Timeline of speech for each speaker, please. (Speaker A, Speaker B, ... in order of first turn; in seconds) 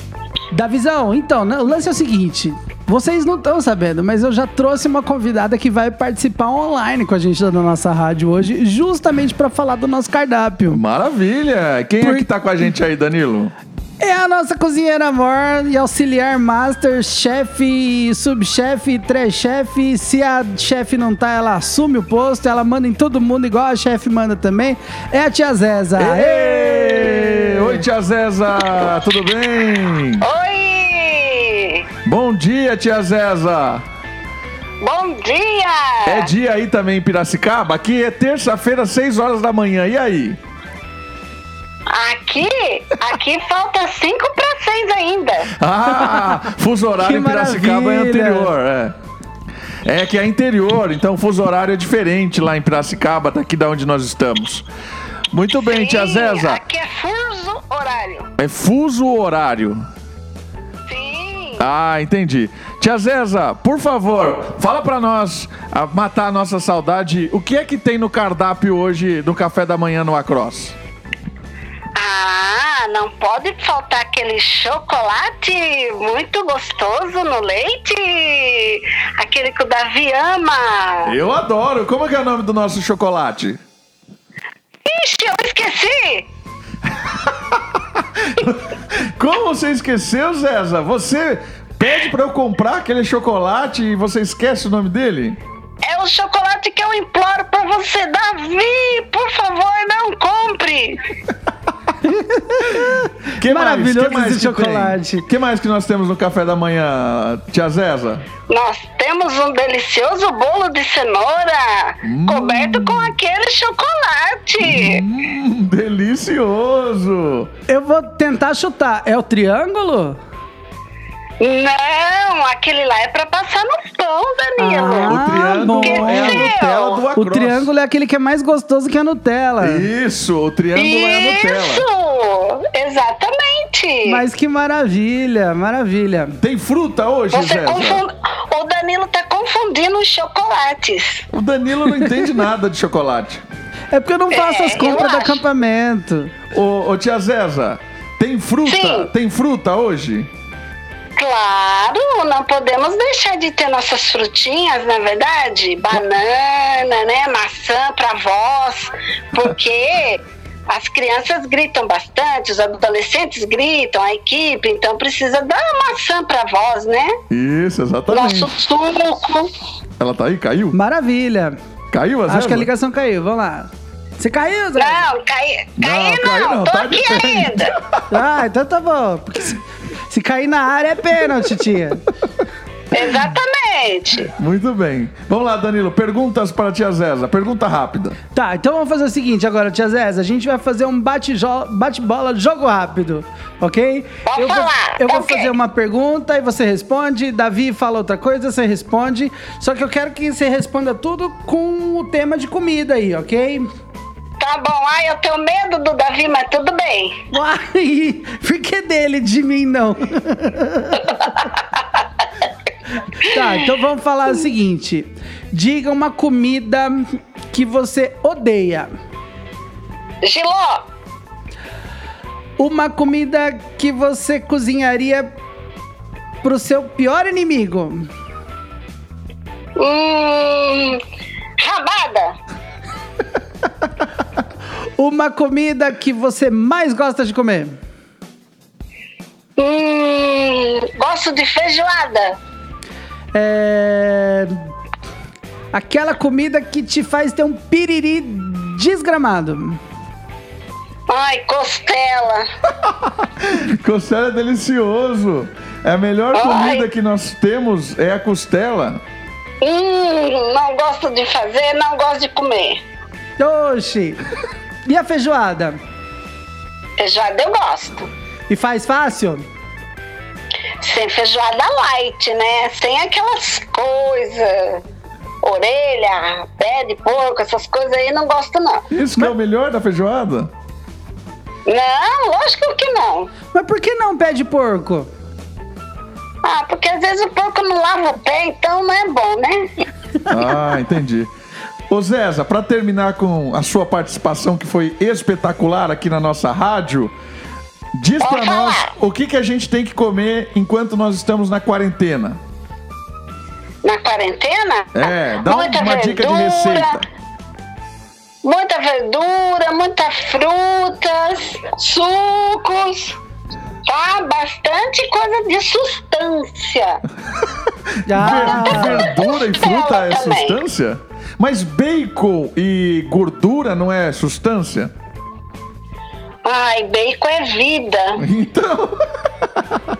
Speaker A: 0.5-10.8, 12.0-12.2, 14.0-27.8, 47.0-48.5, 102.0-105.2, 117.7-120.2, 124.6-126.5, 127.1-129.9, 134.0-136.4, 143.9-146.3, 170.7-171.6, 172.3-175.1, 178.1-182.0, 188.3-203.7, 207.3-211.2, 213.2-218.9, 222.6-225.3, 226.4-228.1, 235.0-237.8, 243.3-244.6, 245.7-249.8, 263.4-264.2, 264.9-265.8, 268.5-269.4, 283.5-285.1, 318.1-319.1
Speaker B: 10.7-13.5, 25.9-30.2, 32.0-33.8, 36.0-40.4, 45.6-49.0, 49.8-54.6, 55.3-56.6, 58.4-59.8, 61.6-70.8, 81.0-83.6, 87.2-95.4, 103.4-108.2, 112.0-113.1, 114.6-117.5, 125.0-127.7, 129.6-131.8, 136.4-138.0, 141.3-143.4, 146.5-150.3, 167.3-168.5, 170.0-170.8, 171.9-172.7, 175.8-178.0, 184.3-188.2, 253.4-259.0, 278.9-280.5, 290.3-291.3, 291.9-297.1, 297.9-302.4, 304.9-307.1, 318.1-324.9, 328.1-329.1
Speaker C: 30.2-31.9, 34.8-36.3, 41.9-45.5, 55.5-58.3, 60.9-61.7, 72.0-81.1, 84.8-86.3, 95.8-101.0, 108.5-115.0, 121.4-127.0, 130.7-134.2, 137.3-141.2, 144.3-145.4, 148.7-149.1, 151.2-167.2, 168.1-169.5, 174.8-177.7, 182.9-184.3, 194.3-195.5, 204.4-207.2, 220.2-220.8, 229.8-231.0, 231.6-232.3, 239.6-242.4, 251.1-252.5, 256.3-256.9, 259.6-262.8, 267.0-268.1, 270.8-274.8, 275.4-278.8, 281.6-283.3, 286.4-289.7, 298.2-298.9, 303.8-307.0, 308.4-313.1, 313.9-317.0, 318.4-320.6, 326.4-328.2